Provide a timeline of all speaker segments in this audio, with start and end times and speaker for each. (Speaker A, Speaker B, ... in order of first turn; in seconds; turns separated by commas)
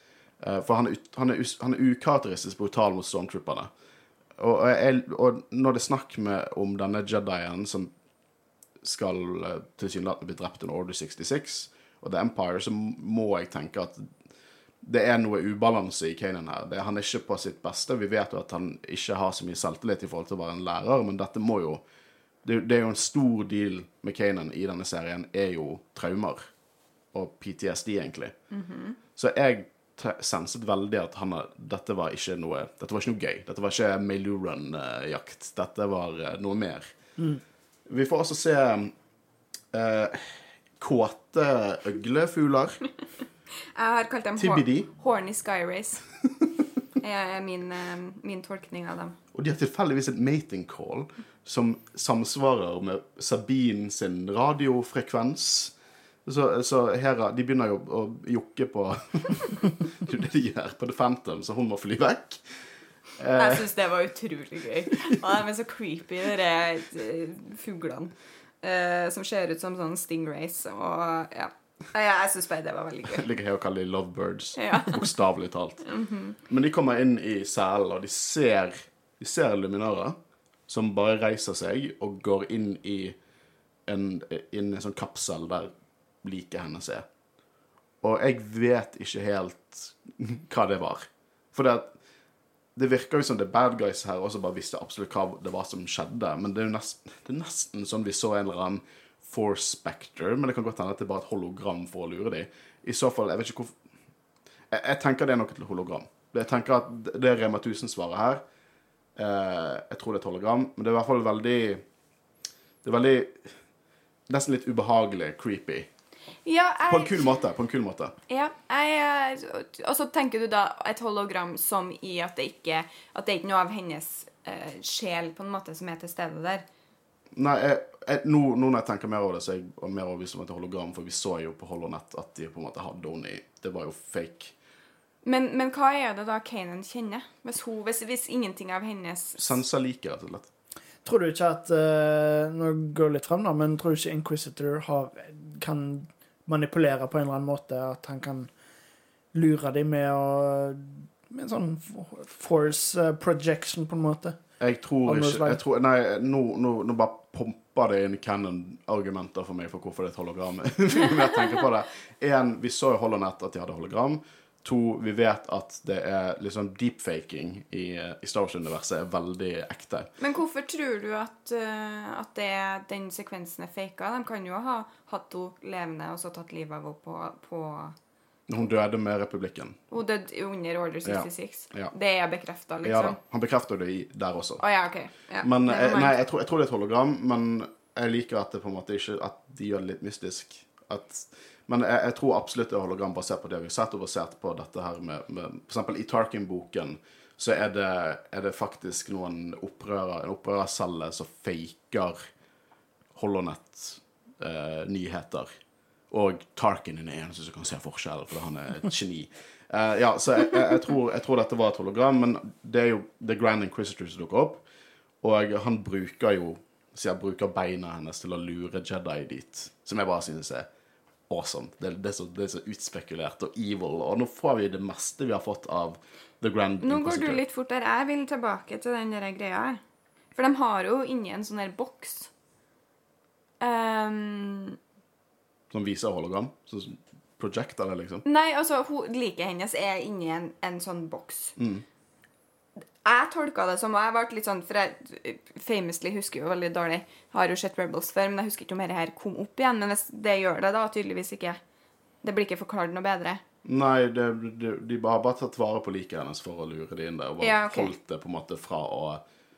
Speaker A: 0.4-3.7, Speaker A: 4.4-7.9, Speaker A: 8.8-14.1, Speaker A: 14.8-21.8, Speaker A: 22.4-26.5, Speaker A: 27.1-28.3, Speaker B: 28.5-29.0, Speaker A: 29.1-36.9, Speaker A: 37.9-38.9, Speaker A: 39.7-42.8, Speaker B: 43.7-46.0, Speaker A: 44.4-44.9, Speaker B: 47.0-49.2, Speaker A: 49.3-55.7, Speaker A: 56.2-62.4, Speaker A: 63.2-63.7, Speaker B: 63.4-73.3, Speaker A: 73.1-75.9, Speaker B: 74.6-75.0, Speaker B: 75.9-76.4, Speaker A: 76.5-80.2, Speaker A: 80.7-83.2, Speaker A: 83.9-85.7, Speaker A: 86.2-87.0, Speaker A: 88.0-91.9, Speaker A: 92.7-103.7, Speaker A: 104.7-108.4, Speaker A: 109.2-111.8, Speaker A: 112.8-113.4, Speaker A: 114.3-115.9, Speaker B: 116.4-117.3, Speaker A: 116.9-118.1, Speaker B: 118.3-126.6, Speaker A: 127.3-134.5, Speaker B: 135.2-139.5, Speaker A: 139.4-140.5, Speaker C: 141.0-148.5, Speaker C: 149.3-154.4, Speaker A: 154.6-170.1, Speaker C: 155.0-155.6, Speaker B: 170.2-177.9, Speaker A: 178.5-179.8, Speaker B: 179.9-183.2, Speaker A: 181.0-181.9, Speaker A: 182.8-184.6, Speaker B: 184.6-186.2, Speaker A: 185.4-202.2, Speaker A: 203.1-205.5, Speaker A: 206.1-214.6, Speaker A: 215.2-220.7, Speaker A: 221.3-227.4, Speaker B: 226.8-229.8, Speaker B: 230.3-232.3, Speaker B: 233.6-234.8, Speaker A: 235.7-238.2, Speaker B: 238.2-241.5, Speaker A: 241.6-241.8, Speaker B: 243.0-251.6, Speaker B: 252.2-253.4, Speaker A: 253.6-259.2, Speaker B: 257.4-257.9